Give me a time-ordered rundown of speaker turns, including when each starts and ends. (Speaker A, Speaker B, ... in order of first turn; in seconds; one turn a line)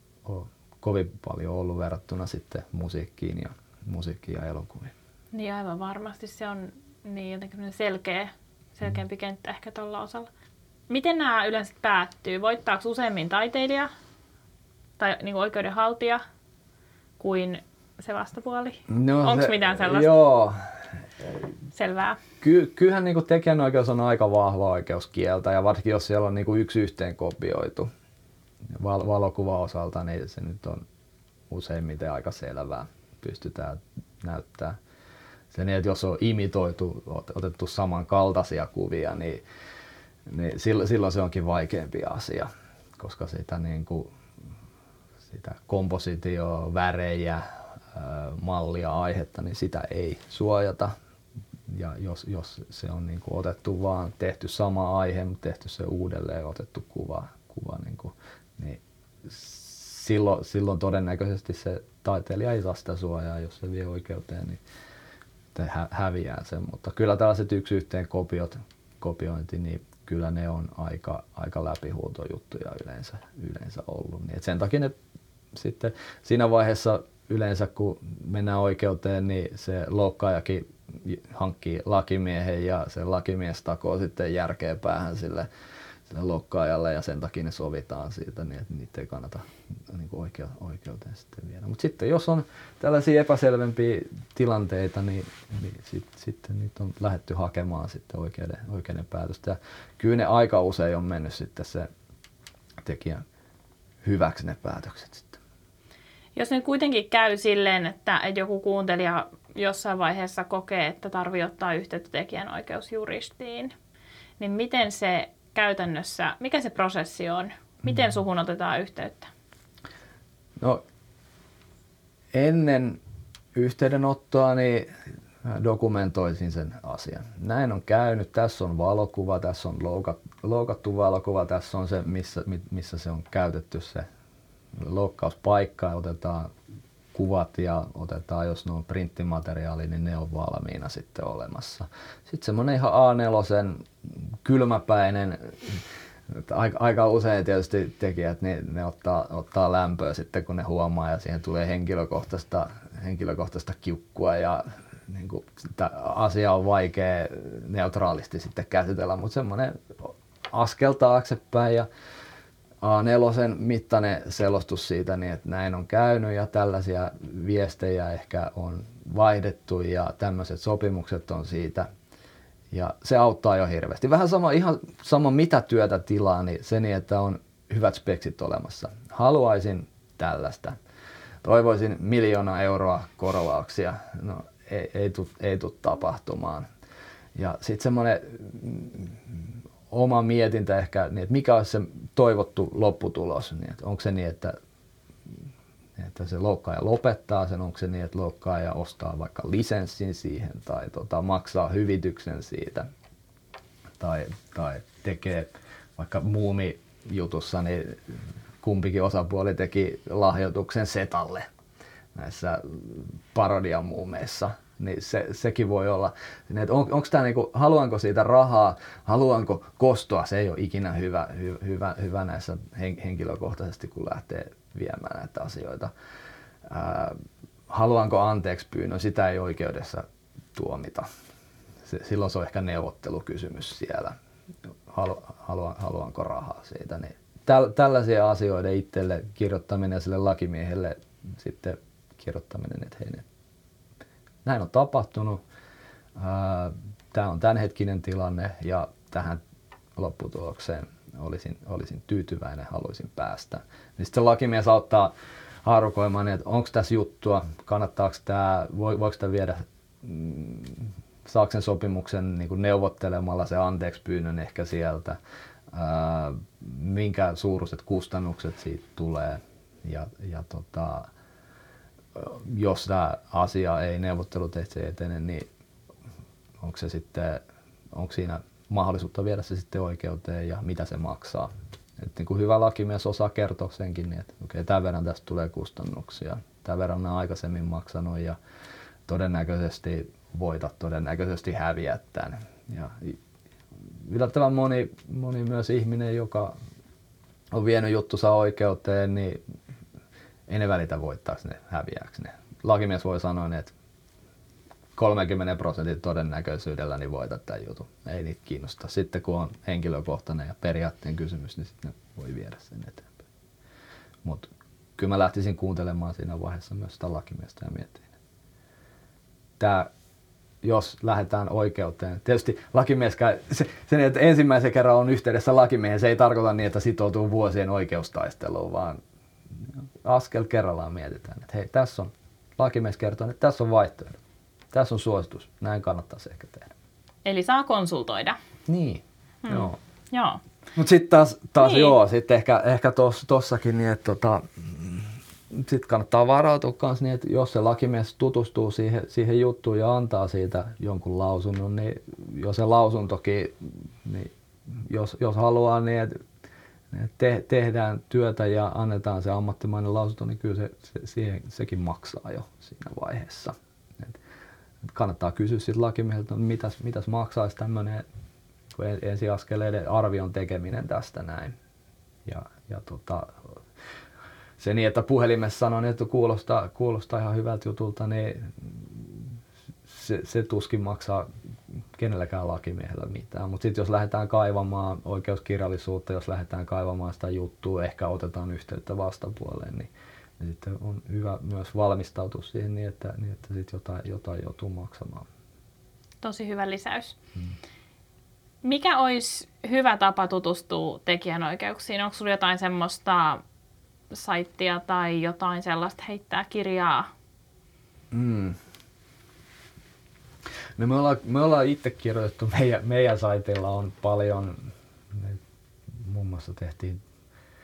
Speaker A: 0.2-4.9
Speaker B: 5.3-10.3
Speaker B: 10.9-13.9
Speaker B: 15.0-16.2
Speaker B: 17.2-20.1
Speaker A: 18.9-20.6
Speaker B: 21.7-22.2
Speaker A: 22.4-27.9
Speaker A: 28.7-30.8
Speaker A: 31.5-34.8
Speaker A: 35.5-39.4
Speaker A: 40.3-44.1
Speaker A: 45.3-50.9
Speaker A: 51.7-64.6
Speaker A: 65.5-74.9
Speaker A: 75.5-85.5
Speaker A: 86.1-101.9
Speaker A: 102.8-103.2
Speaker A: 104.0-105.4
Speaker B: 106.3-113.7
Speaker B: 114.4-119.3
Speaker A: 122.3-123.0
Speaker A: 123.5-124.9
Speaker A: 125.4-134.0
Speaker A: 134.8-136.5
Speaker A: 137.1-161.9
Speaker A: 162.8-171.9
Speaker A: 172.7-180.8
Speaker A: 181.4-186.7
Speaker A: 187.3-194.6
Speaker A: 196.0-202.9
Speaker A: 204.0-211.5
Speaker A: 212.1-225.9
Speaker A: 226.6-231.1
Speaker A: 231.8-234.1
Speaker A: 234.9-243.2
Speaker A: 244.4-245.4
Speaker A: 246.2-249.4
Speaker A: 249.9-255.1
Speaker A: 255.6-265.1
Speaker A: 265.7-271.1
Speaker A: 272.1-275.4
Speaker A: 276.6-277.4
Speaker A: 277.9-288.4
Speaker A: 289.1-293.2
Speaker A: 293.9-296.5
Speaker A: 297.5-299.4
Speaker A: 300.5-303.7
Speaker A: 304.9-313.2
Speaker A: 314.2-318.1
Speaker A: 319.6-319.9
Speaker A: 320.6-329.0
Speaker A: 329.5-334.2
Speaker A: 334.7-336.7
Speaker B: 337.2-338.4
Speaker A: 338.7-339.8
Speaker B: 339.4-340.4
Speaker A: 340.8-356.2
Speaker B: 341.6-342.0
Speaker A: 356.9-364.2
Speaker A: 364.8-368.1
Speaker A: 368.7-371.6
Speaker A: 372.2-373.6
Speaker A: 374.6-379.3
Speaker A: 379.9-381.3
Speaker A: 381.9-395.3
Speaker B: 396.2-397.1
Speaker B: 398.6-403.4
Speaker B: 404.1-407.1
Speaker A: 408.1-408.6
Speaker A: 410.8-417.0